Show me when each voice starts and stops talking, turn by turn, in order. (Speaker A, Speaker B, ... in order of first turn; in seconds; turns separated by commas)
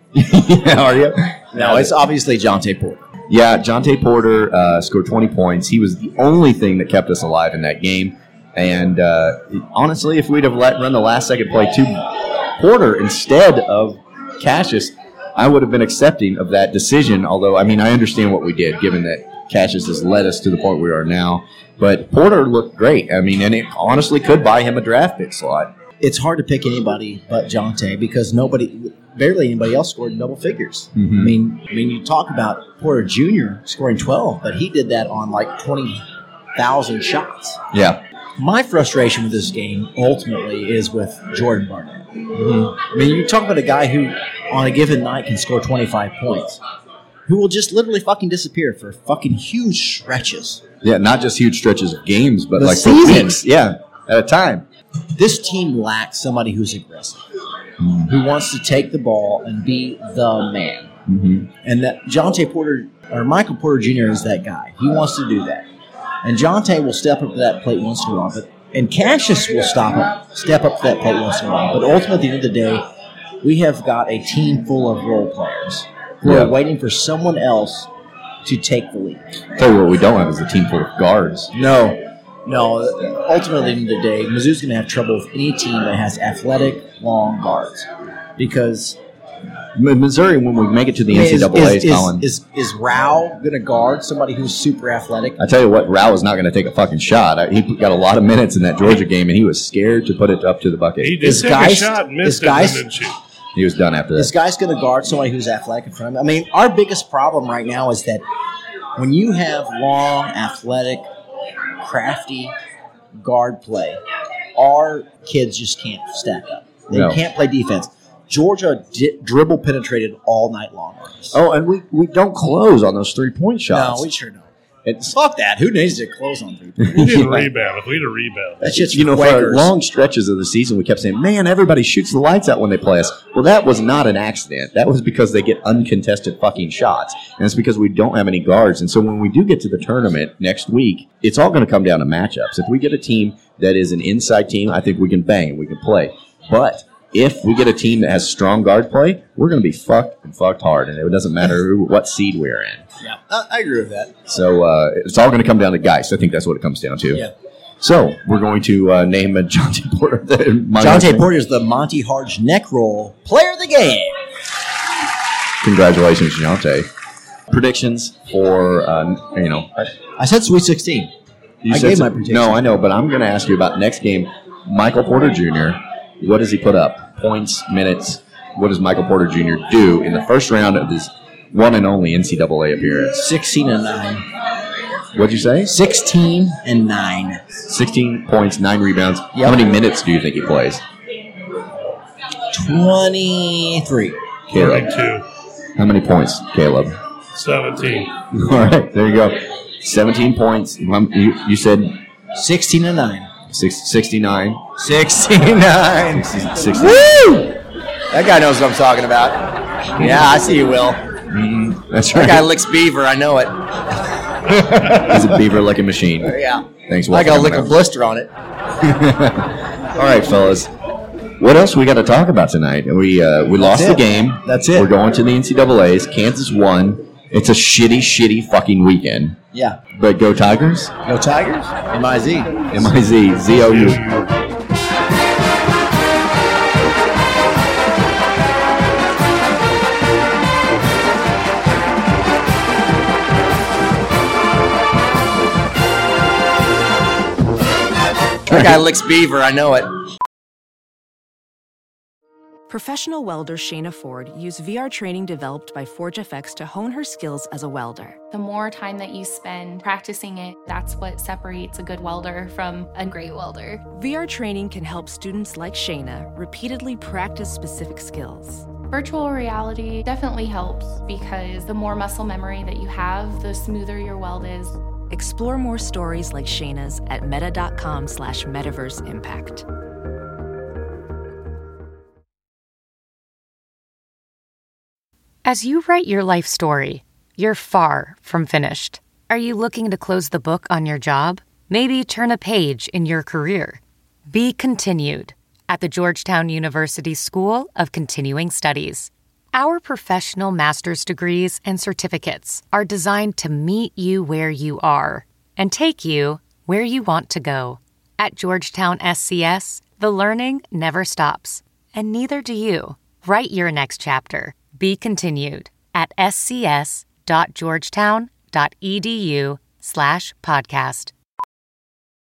Speaker A: 0.1-1.9, Speaker B: 1.5-3.0, Speaker A: 3.3-25.7, Speaker B: 26.0-36.0, Speaker A: 31.0-31.3, Speaker B: 36.6-37.6, Speaker A: 37.7-38.0, Speaker B: 38.4-46.6, Speaker A: 42.4-42.7, Speaker B: 47.3-50.6, Speaker A: 50.8-54.7, Speaker B: 52.6-53.4, Speaker B: 55.1-57.2, Speaker A: 57.8-58.1, Speaker B: 58.1-60.9, Speaker A: 61.1-61.5, Speaker B: 61.6-65.7, Speaker B: 66.2-72.8, Speaker B: 73.4-77.9, Speaker A: 76.2-76.6, Speaker B: 78.4-79.2, Speaker A: 79.6-81.5, Speaker B: 81.5-89.0, Speaker A: 89.8-92.2, Speaker B: 91.1-95.4, Speaker A: 95.4-101.3, Speaker C: 101.0-103.2, Speaker B: 101.2-102.8, Speaker A: 103.5-104.3, Speaker B: 104.2-108.2, Speaker B: 109.0-111.1, Speaker B: 111.8-112.5, Speaker B: 113.2-114.0, Speaker B: 114.5-121.4, Speaker A: 116.9-117.2, Speaker A: 121.3-124.1, Speaker B: 123.7-124.5, Speaker A: 124.8-125.1, Speaker B: 125.0-127.0, Speaker A: 126.8-127.5, Speaker C: 127.0-128.8, Speaker B: 128.6-129.7, Speaker A: 128.7-152.8, Speaker B: 153.0-154.1, Speaker A: 154.3-157.3, Speaker A: 157.8-161.3, Speaker B: 160.8-164.1, Speaker A: 165.6-166.9, Speaker A: 167.5-169.9, Speaker B: 170.2-171.1, Speaker A: 171.6-183.2, Speaker B: 171.7-172.6, Speaker B: 183.2-184.2, Speaker A: 185.1-185.8, Speaker B: 185.7-187.4, Speaker A: 187.7-190.8, Speaker B: 192.5-194.2, Speaker A: 194.5-194.9, Speaker C: 194.5-195.2, Speaker A: 195.8-197.0, Speaker C: 197.3-198.2, Speaker A: 198.3-202.0, Speaker B: 202.3-203.3, Speaker A: 203.5-204.7, Speaker B: 204.8-207.5, Speaker A: 206.1-207.4, Speaker B: 208.1-209.4, Speaker B: 210.0-211.0, Speaker A: 211.3-212.5, Speaker B: 212.1-213.6, Speaker A: 214.5-217.8, Speaker B: 216.2-218.3, Speaker A: 218.8-220.7, Speaker A: 221.4-229.4, Speaker B: 223.6-224.9, Speaker B: 229.5-229.8, Speaker A: 229.9-230.9, Speaker B: 231.1-232.7, Speaker A: 232.7-234.0, Speaker C: 233.7-234.3, Speaker B: 248.5-250.0, Speaker D: 252.7-258.2, Speaker E: 258.3-263.8, Speaker D: 263.9-268.7, Speaker E: 268.9-274.8, Speaker D: 275.1-279.6, Speaker F: 285.4-321.1